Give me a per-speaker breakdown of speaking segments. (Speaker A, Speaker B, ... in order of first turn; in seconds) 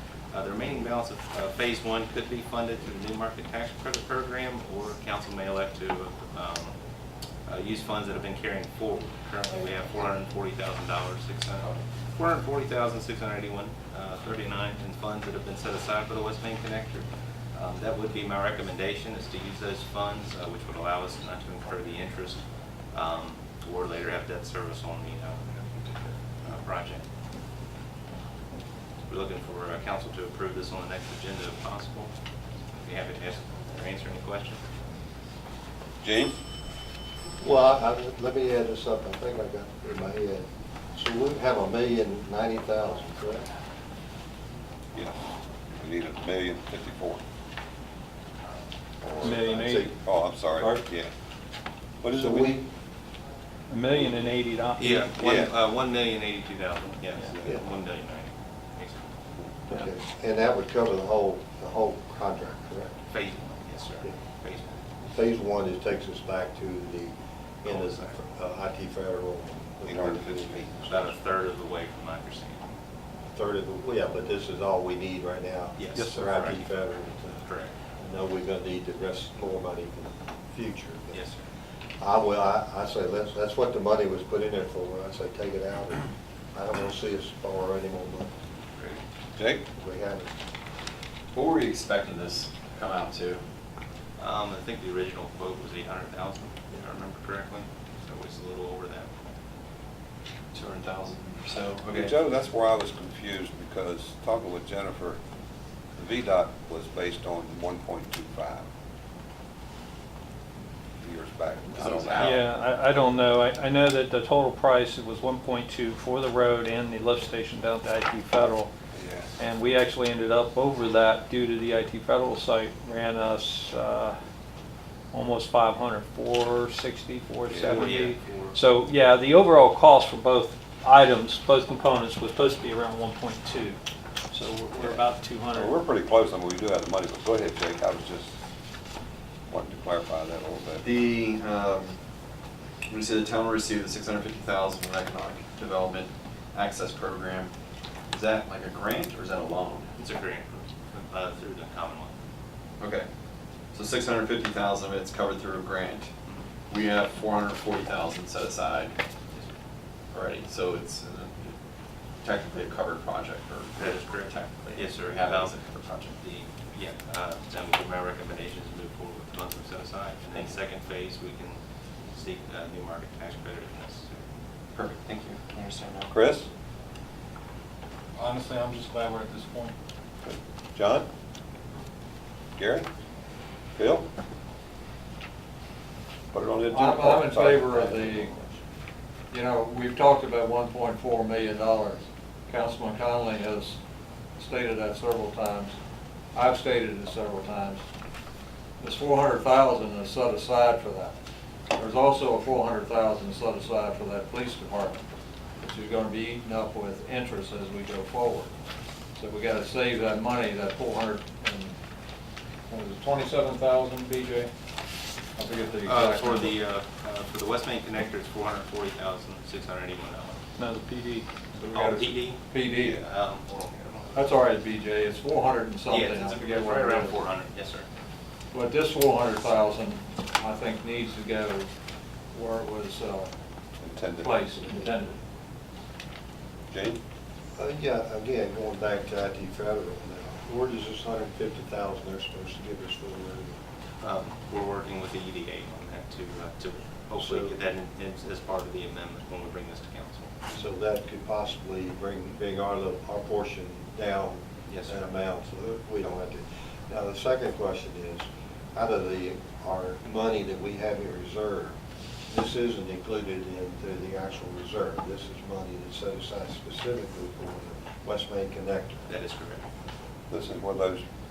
Speaker A: 0.3-6.7, 7.5-22.4, 22.9-25.9, 26.4-27.0, 29.1-32.1, 32.7-34.6, 54.8-59.1, 63.1-64.7, 67.6-68.2, 70.9-72.7, 75.8-76.6, 77.4-77.7, 81.1-81.4, 94.2-99.1, 127.6-128.6, 150.0-152.2, 163.8-171.6, 172.1-174.2, 215.8-220.4, 221.7-224.3, 225.9-227.9, 244.0-250.3, 254.7-255.0, 269.1-269.6
Speaker B: 36.0-36.4, 45.7-47.2, 49.0-51.1, 52.0-52.6, 55.2-55.5, 57.2-57.5, 69.8-71.0, 89.3-89.6, 101.9-105.2, 106.0-108.7, 111.0-112.4, 118.9-119.3, 127.5-128.0, 134.8-138.3, 139.5-140.8, 176.1-176.5, 180.2-181.1, 182.6-182.9, 183.8-184.1, 186.3-188.5, 233.8-234.4, 236.7-237.0, 270.3-271.0
Speaker C: 37.4-43.5, 49.2-49.9, 50.6-50.8, 52.1-52.6, 59.7-63.0, 65.0-70.6, 73.3-77.4, 78.0-81.2, 82.0-88.3, 89.8-90.3, 237.6-243.5, 247.2-247.6, 250.5-261.7, 262.3-269.0
Speaker D: 49.2-49.9, 53.7-55.1, 76.0-76.6, 112.2-118.7, 119.4-124.2, 125.1-133.8, 134.3-135.7, 220.6-221.3
Speaker E: 91.3-93.4, 100.5-102.1, 111.7-112.5, 140.8-141.9, 142.9-147.5, 148.1-149.9, 152.8-153.1, 153.7-156.1, 156.7-158.9, 160.1-161.5, 162.2-166.1, 174.7-176.1
Speaker F: 178.2-179.7, 186.7-188.3, 189.3-193.8, 194.4-195.7, 196.3-197.8, 198.8-201.1, 201.7-205.0, 205.6-208.5, 209.2-211.7, 212.7-214.5, 215.3-216.6, 221.5-223.0, 224.1-227.2, 228.5-231.7, 232.3-233.3, 234.2-235.2